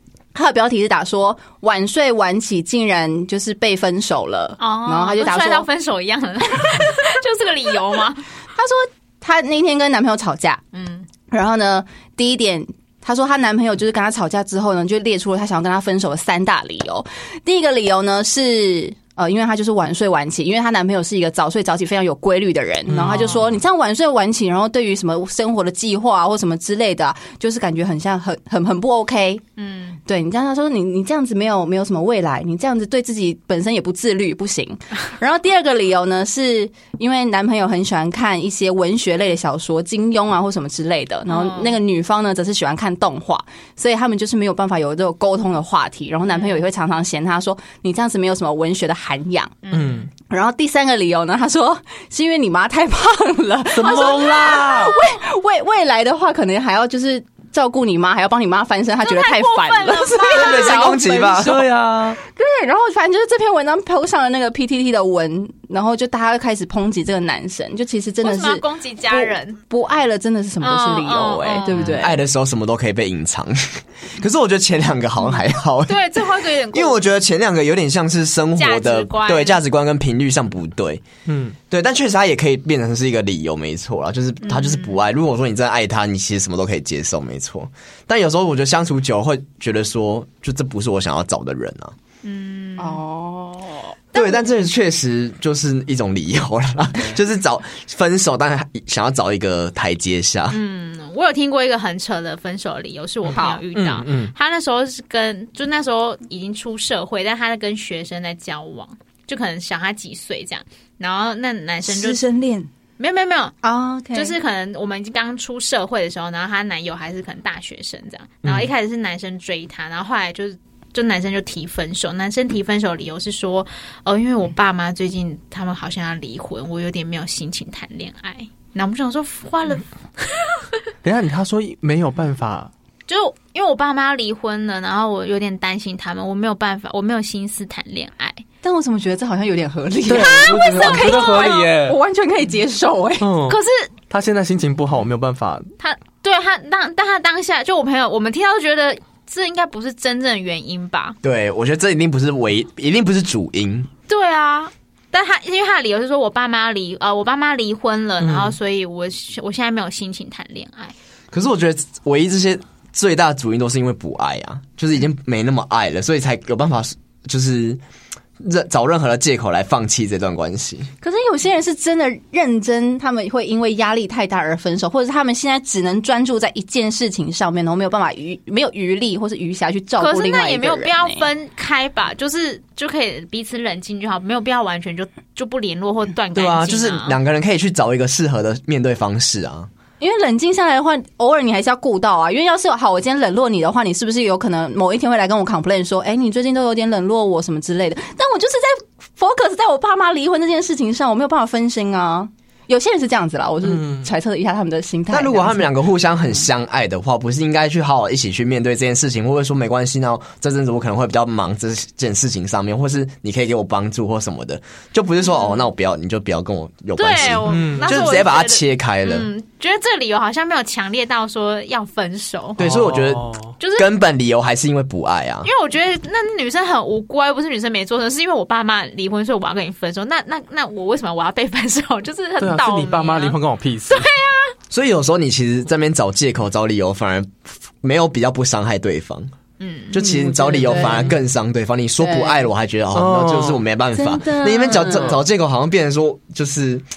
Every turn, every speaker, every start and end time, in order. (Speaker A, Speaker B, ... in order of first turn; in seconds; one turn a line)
Speaker A: 0.3-5.7
Speaker B: 4.6-8.2
Speaker A: 8.6-10.6
Speaker B: 10.7-11.1
Speaker A: 11.3-29.4
Speaker C: 22.9-23.4
Speaker B: 29.6-30.0
Speaker A: 30.1-49.5
Speaker B: 41.3-41.8
Speaker B: 46.3-46.6
Speaker B: 49.6-50.1
Speaker C: 49.7-50.1
Speaker A: 50.3-61.6
Speaker C: 53.7-55.0
Speaker B: 59.0-61.0
Speaker D: 60.3-61.6
Speaker C: 61.3-62.2
Speaker A: 62.2-72.2
Speaker B: 68.2-69.6
Speaker B: 70.6-71.8
Speaker C: 71.7-72.0
Speaker D: 71.8-81.0
Speaker B: 75.9-77.1
Speaker B: 78.5-79.6
Speaker C: 81.3-81.6
Speaker D: 81.7-92.0
Speaker B: 84.4-85.0
Speaker B: 92.2-93.0
Speaker A: 92.8-94.4
Speaker D: 94.1-100.6
Speaker B: 100.5-112.2
Speaker A: 103.3-103.6
Speaker C: 103.7-104.3
Speaker A: 111.9-112.7
Speaker B: 113.0-113.5
Speaker A: 113.6-114.3
Speaker B: 114.1-130.8
Speaker C: 118.4-118.7
Speaker C: 131.0-132.7
Speaker B: 133.1-138.4
Speaker A: 138.6-143.3
Speaker C: 140.1-142.0
Speaker B: 140.1-141.7
Speaker C: 143.2-145.7
Speaker B: 143.5-143.9
Speaker B: 145.8-151.2
Speaker D: 151.2-153.9
Speaker B: 154.1-160.9
Speaker C: 158.2-158.5
Speaker D: 161.3-167.8
Speaker D: 168.4-170.9
Speaker A: 171.0-181.2
Speaker B: 180.0-187.2
Speaker D: 186.3-189.7
Speaker A: 190.0-205.7
Speaker C: 203.7-204.1
Speaker D: 205.1-219.3
Speaker B: 215.3-215.6
Speaker B: 216.9-222.6
Speaker C: 217.5-217.9
Speaker C: 222.6-223.5
Speaker D: 222.6-225.5
Speaker B: 223.6-223.9
Speaker B: 225.4-233.4
Speaker C: 232.4-234.1
Speaker B: 233.9-234.5
Speaker D: 234.7-239.3
Speaker B: 239.6-240.0
Speaker D: 239.9-246.8
Speaker A: 239.9-241.2
Speaker A: 242.0-242.5
Speaker C: 242.9-243.6
Speaker A: 243.9-245.2